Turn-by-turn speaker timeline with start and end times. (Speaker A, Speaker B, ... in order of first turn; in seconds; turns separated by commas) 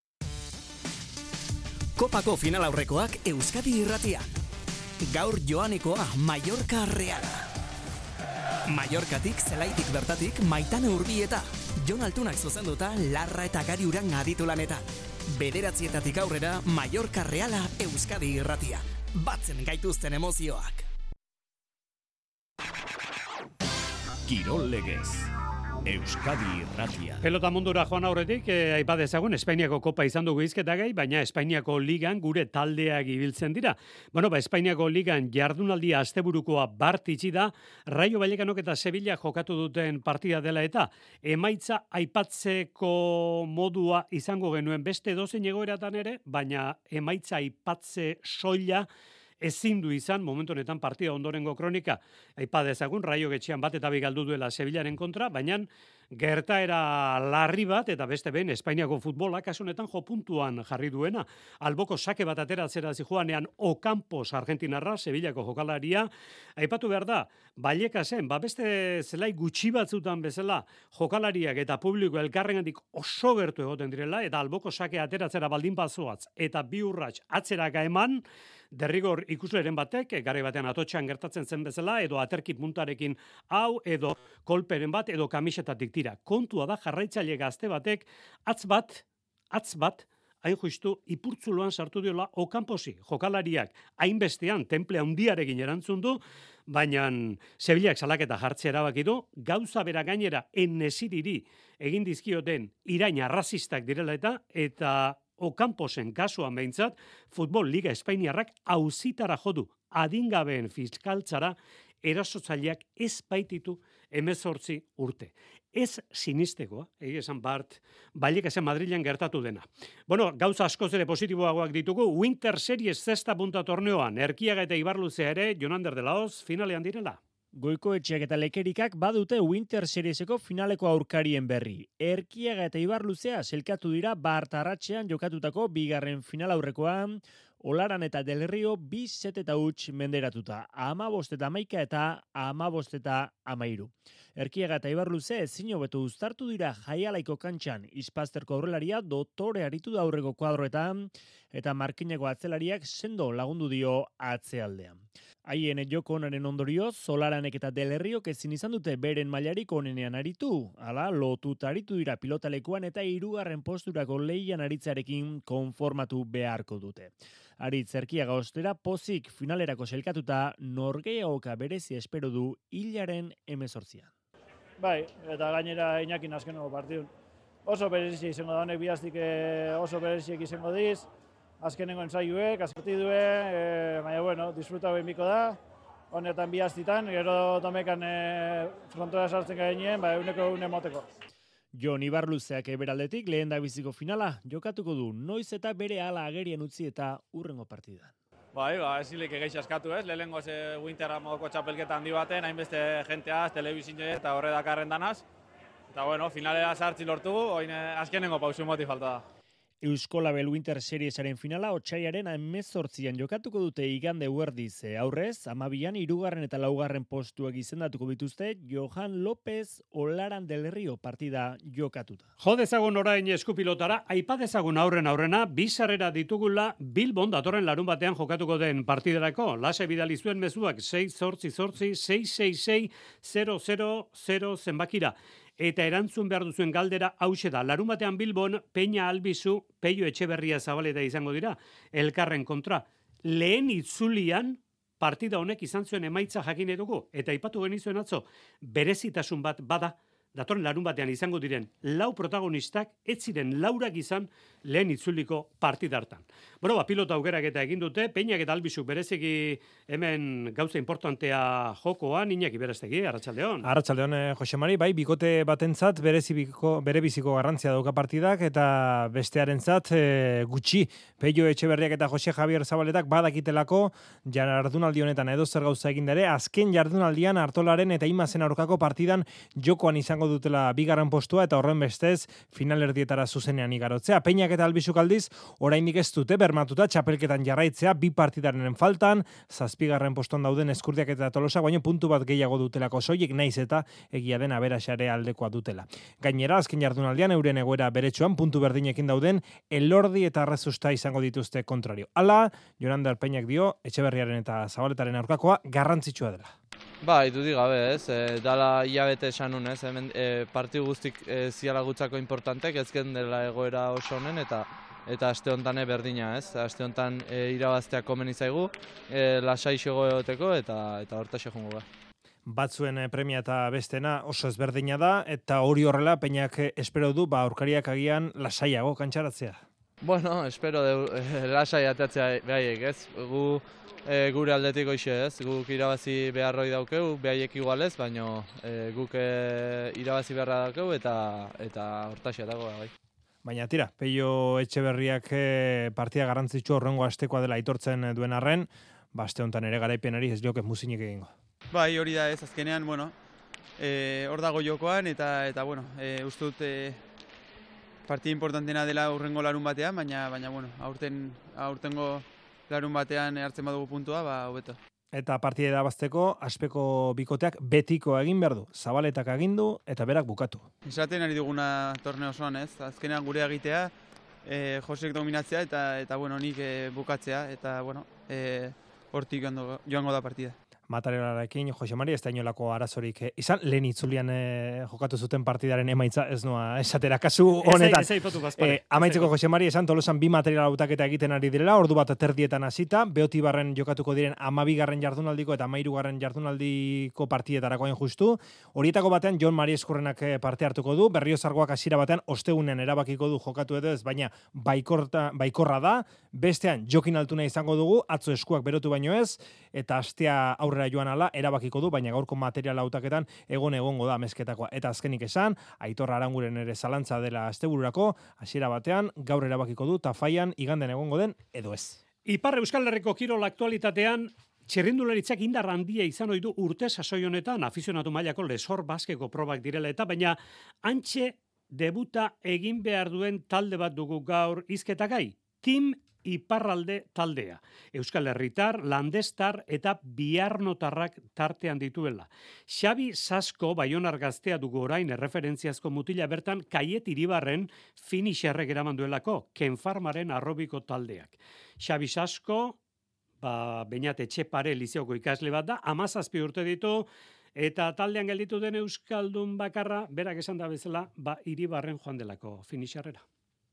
Speaker A: 2.0-4.2, Speaker A: 5.0-7.4, Speaker A: 8.7-20.9, Speaker B: 24.2-25.3, Speaker B: 25.8-27.2, Speaker C: 27.2-48.9, Speaker C: 49.4-127.2, Speaker D: 127.5-174.1, Speaker E: 174.8-177.1, Speaker E: 177.6-181.1, Speaker E: 181.6-185.6, Speaker E: 186.1-191.1, Speaker D: 191.7-198.1, Speaker F: 198.5-205.2, Speaker F: 205.9-209.2, Speaker D: 209.8-222.2, Speaker C: 222.4-263.7, Speaker G: 263.6-306.5, Speaker B: 307.0-321.8, Speaker G: 322.4-329.6, Speaker B: 330.0-342.9, Speaker G: 343.4-351.3, Speaker H: 351.7-353.1, Speaker H: 353.8-357.0, Speaker H: 358.1-364.8, Speaker G: 365.1-370.6, Speaker H: 370.8-373.9, Speaker H: 374.4-380.5, Speaker G: 380.9-422.0, Speaker C: 387.6-389.3, Speaker C: 422.2-452.8, Speaker C: 453.4-463.2